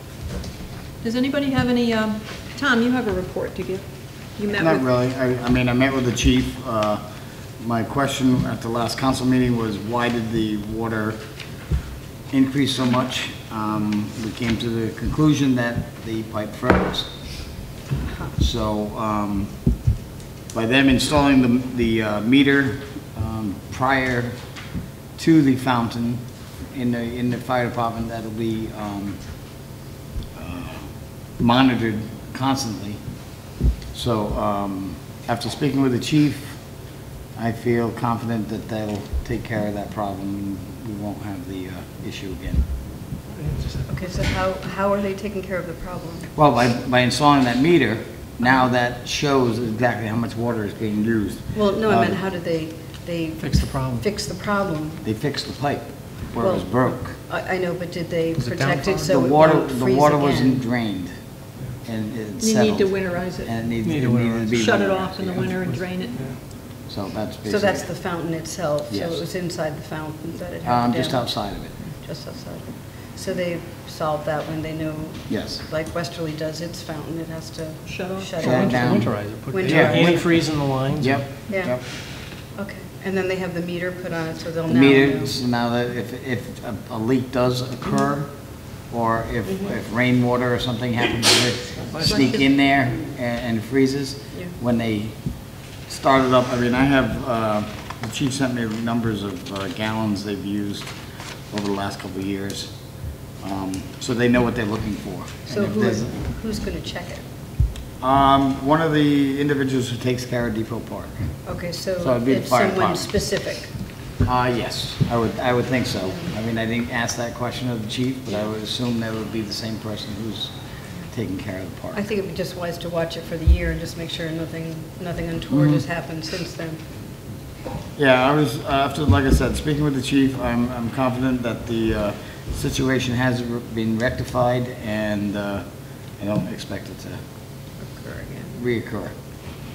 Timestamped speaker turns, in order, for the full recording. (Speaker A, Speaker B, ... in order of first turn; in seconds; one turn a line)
Speaker A: 1.0-3.8
Speaker A: 4.4-4.8
Speaker B: 4.5-7.0
Speaker B: 7.6-11.2
Speaker B: 12.3-17.1
Speaker C: 18.1-18.3
Speaker B: 18.4-19.5
Speaker B: 20.5-24.3
Speaker B: 25.2-26.2
Speaker B: 26.7-29.2
Speaker B: 30.3-30.8
Speaker B: 31.4-33.0
Speaker B: 33.9-36.6
Speaker B: 37.4-42.6
Speaker D: 43.4-43.9
Speaker C: 43.9-46.3
Speaker B: 46.4-52.2
Speaker C: 51.5-55.0
Speaker D: 53.4-54.0
Speaker B: 55.0-57.1
Speaker C: 56.4-60.6
Speaker D: 58.5-58.9
Speaker B: 59.0-61.1
Speaker B: 61.8-65.5
Speaker A: 62.4-63.6
Speaker D: 63.8-64.6
Speaker A: 64.5-66.2
Speaker D: 65.5-66.4
Speaker B: 66.9-67.9
Speaker C: 67.5-71.4
Speaker B: 68.9-69.2
Speaker B: 70.6-71.7
Speaker C: 72.0-80.7
Speaker B: 75.3-75.6
Speaker A: 77.8-78.9
Speaker B: 78.4-80.2
Speaker D: 78.6-81.2
Speaker B: 81.0-81.8
Speaker C: 81.5-81.8
Speaker C: 82.5-85.3
Speaker B: 84.7-88.3
Speaker B: 88.9-95.1
Speaker A: 92.0-92.4
Speaker B: 95.9-100.9
Speaker B: 101.5-102.7
Speaker B: 103.4-106.1
Speaker C: 105.5-107.2
Speaker B: 108.0-111.2
Speaker C: 111.5-113.7
Speaker B: 112.0-113.1
Speaker B: 114.2-120.5
Speaker B: 121.1-122.0
Speaker C: 121.9-126.8
Speaker B: 125.5-125.8
Speaker B: 128.0-135.7
Speaker B: 136.2-137.2
Speaker C: 137.8-138.5
Speaker B: 138.5-139.1